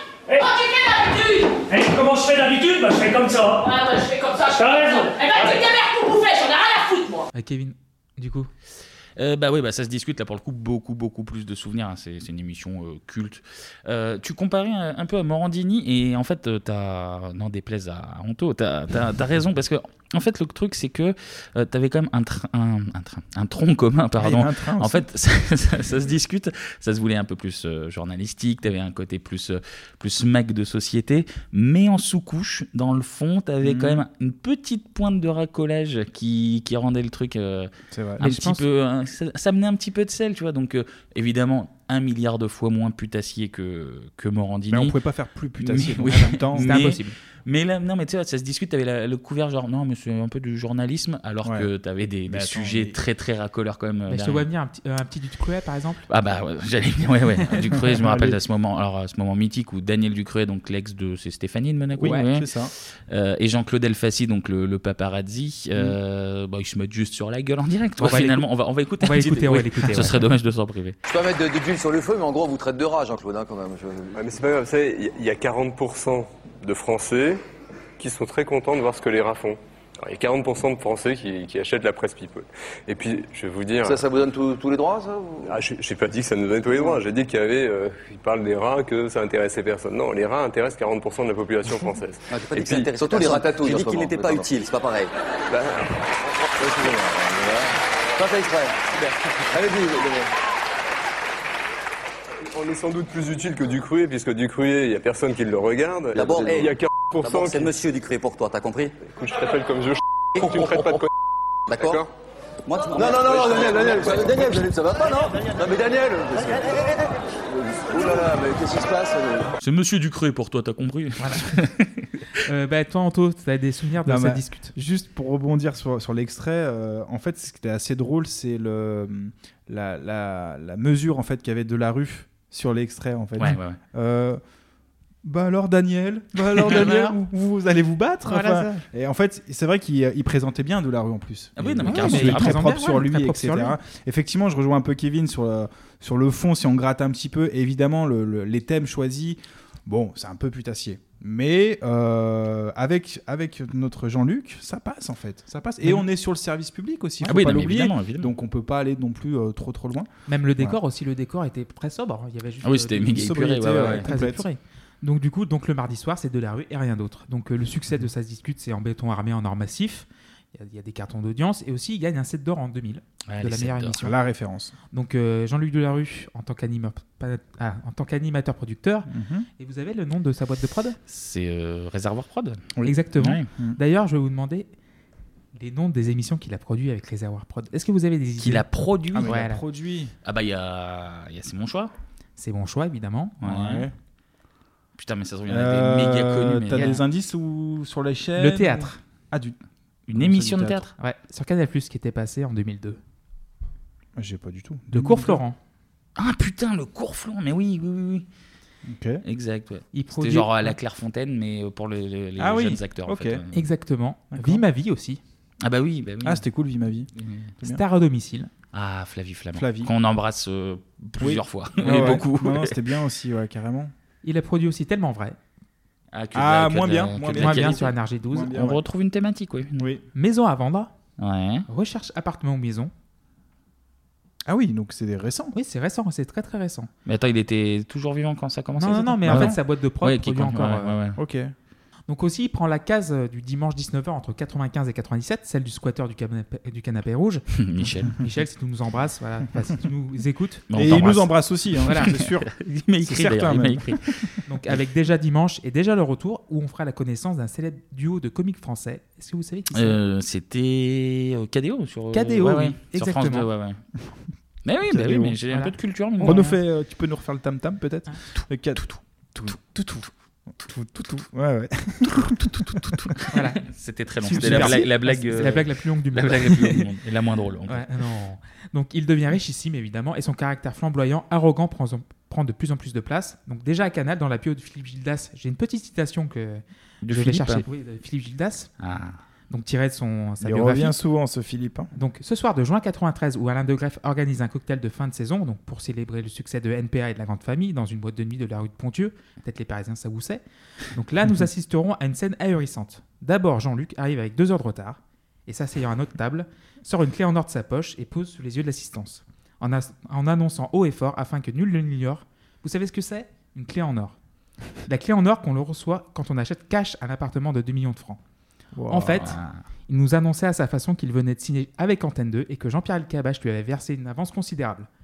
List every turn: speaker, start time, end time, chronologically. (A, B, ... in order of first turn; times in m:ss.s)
0:00.4-0:01.6 A
0:01.7-0:03.7 B
0:03.6-0:07.3 A
0:04.5-0:05.7 B
0:07.4-0:08.5 C
0:09.2-0:44.9 D
0:24.2-0:25.0 E
0:33.6-0:34.0 E
0:37.9-0:38.2 E
0:38.2-0:38.6 C
0:44.7-0:46.8 E
0:45.6-0:54.5 D
0:46.1-0:47.2 C
0:52.3-0:53.0 E
0:54.1-0:56.0 C
0:56.1-1:11.0 D
0:58.0-0:58.4 E
1:02.0-1:02.7 E
1:08.0-1:08.5 C
1:09.0-1:10.2 C
1:11.1-1:14.1 F
1:14.1-1:17.4 G
1:18.0-1:24.1 G
1:23.8-1:25.5 F
1:25.4-1:33.4 G
1:32.3-1:35.1 F
1:36.6-1:39.0 F
1:39.5-1:40.3 F
1:42.5-1:47.8 G
1:46.2-1:46.7 F
1:47.4-1:48.9 F
1:49.0-1:51.1 G
1:51.7-1:52.1 G
1:52.8-1:56.8 F
1:57.5-1:59.5 F
1:59.6-2:02.1 D
2:01.2-2:01.6 C
2:02.4-2:04.7 C
2:04.0-2:14.4 E
2:13.4-2:13.8 D
2:15.2-2:40.8 E
2:16.6-2:17.1 D
2:18.3-2:18.8 C
2:21.6-2:22.6 D
2:21.8-2:23.8 C
2:37.3-2:38.3 D
2:40.3-2:54.2 C
2:42.6-2:44.1 D
2:43.1-2:44.4 E
2:53.3-2:54.0 D
2:54.0-2:54.7 E
2:54.9-3:01.0 C
2:59.1-2:59.5 E
3:01.1-3:03.5 D
3:02.8-3:04.7 C
3:03.5-3:03.8 E
3:05.6-3:09.6 C
3:08.4-3:09.3 D
3:09.1-3:10.1 E
3:10.2-3:11.9 D
3:12.4-3:13.4 C
3:13.4-3:13.8 D
3:13.4-3:13.9 E
3:15.0-3:17.0 D
3:15.5-3:19.6 E
3:16.7-3:17.0 C
3:18.4-3:19.0 C
3:20.1-3:20.9 D
3:20.2-3:20.9 E
3:21.0-3:23.0 C
3:24.2-3:25.4 E
3:24.9-3:25.6 C
3:26.2-3:28.2 D
3:28.8-3:29.2 E
3:29.2-3:33.6 D
3:29.9-3:30.8 C
3:32.4-3:33.4 E
3:33.5-3:35.2 C
3:34.3-3:34.6 E
3:35.6-3:36.4 D
3:36.2-3:37.1 E
3:37.2-3:37.5 D
3:37.6-3:38.5 C
3:38.7-3:42.8 D
3:39.5-3:39.9 E
3:41.2-3:43.9 E
3:44.2-3:45.4 C
3:46.1-3:47.9 D
3:46.4-3:48.8 E
3:47.3-3:48.6 C
3:48.5-3:49.9 D
3:49.8-3:50.0 E
3:50.2-3:50.9 C
3:51.2-3:51.7 D
3:51.7-3:52.9 C
3:54.5-3:55.5 E
3:55.5-3:56.9 C
3:57.1-4:01.2 D
3:58.8-4:01.0 C
3:59.2-3:59.6 E
4:01.2-4:01.5 E
4:02.1-4:07.4 C
4:07.6-4:08.2 D
4:08.1-4:10.7 C
4:10.7-4:14.3 D
4:10.7-4:12.5 E
4:11.9-4:12.1 C
4:13.0-4:14.0 E
4:14.5-4:20.0 C
4:19.7-4:23.8 D
4:22.1-4:23.5 C
4:24.6-4:26.5 D
4:24.9-4:25.4 E
4:25.5-4:26.6 C
4:26.2-4:28.8 E
4:28.8-4:29.6 D
4:29.4-4:30.0 E
4:30.6-4:33.1 E
4:32.1-4:37.9 D
4:33.3-4:33.6 C
4:34.2-4:36.9 C
4:34.2-4:34.9 E
4:37.7-4:48.7 C
4:47.0-4:47.6 D
4:48.8-4:49.2 D
4:49.5-4:51.0 C
4:50.4-4:51.9 E
4:52.0-5:00.4 C
5:00.9-5:14.2 C
5:14.8-5:18.2 C
5:18.8-5:19.3 E
5:18.9-5:19.4 C
5:19.2-5:19.6 D
5:19.9-5:24.9 C